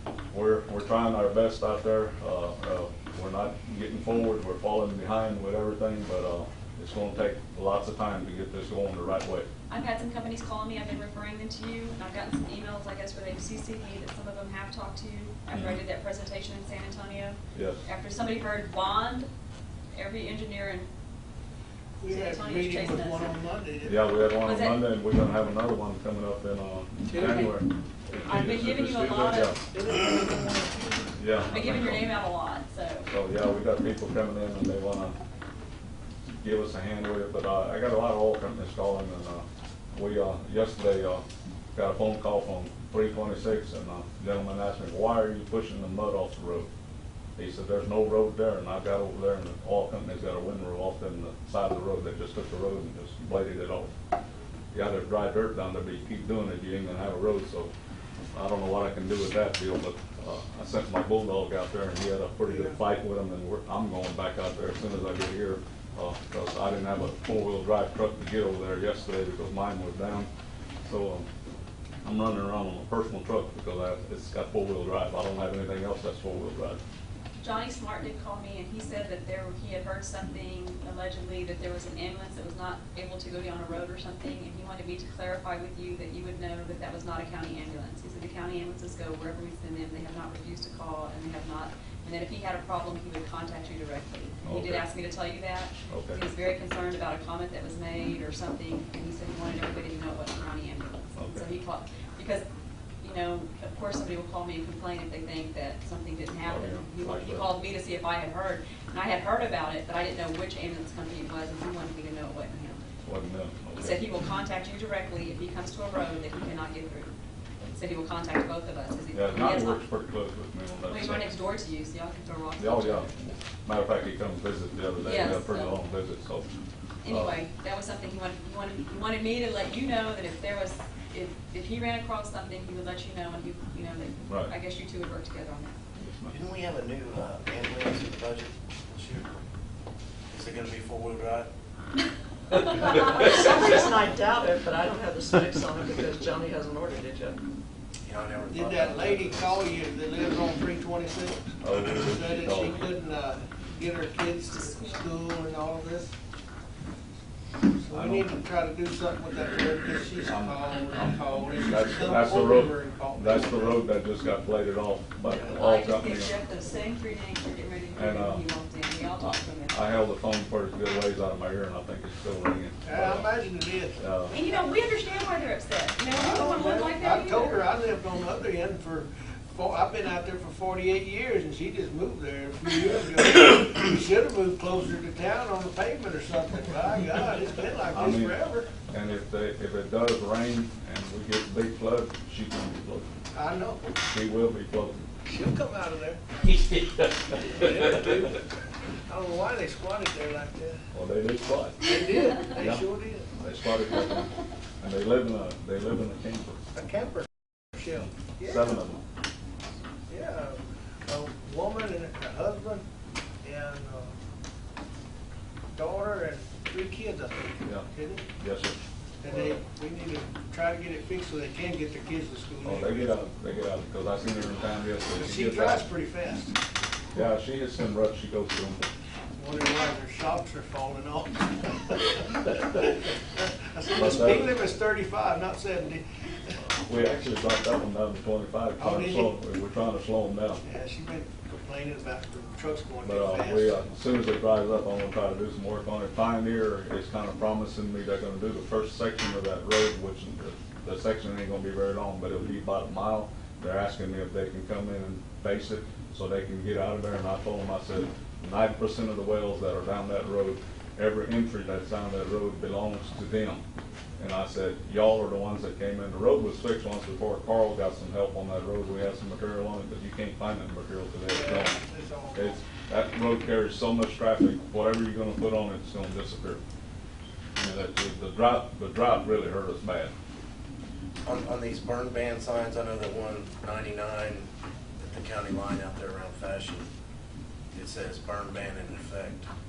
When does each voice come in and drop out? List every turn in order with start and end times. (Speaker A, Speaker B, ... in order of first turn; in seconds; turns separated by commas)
Speaker A: 0.3-9.5, Speaker B: 9.7-19.3, Speaker A: 17.5-17.8, Speaker B: 19.9-20.9, Speaker C: 22.0-24.0, Speaker B: 22.1-23.3, Speaker A: 23.8-29.6, Speaker B: 24.4-24.8, Speaker C: 27.1-27.5, Speaker B: 27.1-27.6, Speaker B: 28.1-29.7, Speaker C: 29.7-31.0, Speaker A: 31.2-32.2, Speaker B: 31.5-33.1, Speaker A: 33.1-35.2, Speaker A: 36.4-41.2, Speaker A: 41.8-46.7, Speaker A: 47.4-53.9, Speaker A: 54.7-57.7, Speaker A: 58.3-70.3, Speaker A: 70.8-71.3, Speaker A: 72.0-76.8, Speaker B: 77.4-102.5, Speaker A: 94.4-94.9, Speaker A: 95.9-96.2, Speaker A: 101.2-101.5, Speaker B: 103.0-112.8, Speaker A: 106.4-107.5, Speaker A: 113.0-114.0, Speaker B: 113.8-117.1, Speaker B: 117.7-119.8, Speaker A: 119.1-121.3, Speaker B: 120.9-123.1, Speaker A: 122.6-126.5, Speaker B: 125.0-125.8, Speaker B: 127.0-135.8, Speaker A: 127.1-127.4, Speaker A: 134.3-134.5, Speaker A: 135.9-136.4, Speaker D: 136.3-139.4, Speaker D: 140.3-141.5, Speaker B: 142.6-143.5, Speaker E: 142.8-147.4, Speaker D: 148.0-149.7, Speaker C: 148.5-156.1, Speaker A: 151.6-152.9, Speaker B: 154.6-155.0, Speaker C: 157.8-163.8, Speaker A: 157.9-158.4, Speaker A: 160.2-166.3, Speaker B: 165.4-169.8, Speaker A: 167.9-168.4, Speaker A: 169.2-173.3, Speaker C: 172.8-174.0, Speaker A: 174.0-174.4, Speaker B: 174.3-177.6, Speaker C: 176.1-188.7, Speaker A: 187.9-193.1, Speaker C: 193.3-193.9, Speaker A: 194.1-195.0, Speaker C: 195.3-196.2, Speaker C: 197.5-198.4, Speaker C: 199.1-200.8, Speaker A: 200.9-206.6, Speaker C: 201.8-203.3, Speaker C: 206.8-208.7, Speaker A: 207.9-209.0, Speaker C: 210.1-212.8, Speaker C: 213.4-214.2, Speaker C: 215.8-218.2, Speaker A: 218.4-218.8, Speaker C: 219.2-223.2, Speaker A: 222.6-225.8, Speaker C: 225.2-226.6, Speaker A: 227.1-228.9, Speaker C: 229.4-236.0, Speaker A: 233.9-234.6, Speaker A: 236.8-240.6, Speaker C: 238.8-239.3, Speaker C: 240.6-243.8, Speaker A: 243.0-263.6, Speaker A: 264.2-271.8, Speaker C: 271.3-272.6, Speaker A: 272.4-276.6, Speaker A: 277.6-280.1, Speaker D: 281.2-284.5, Speaker D: 285.0-286.9, Speaker D: 287.7-289.5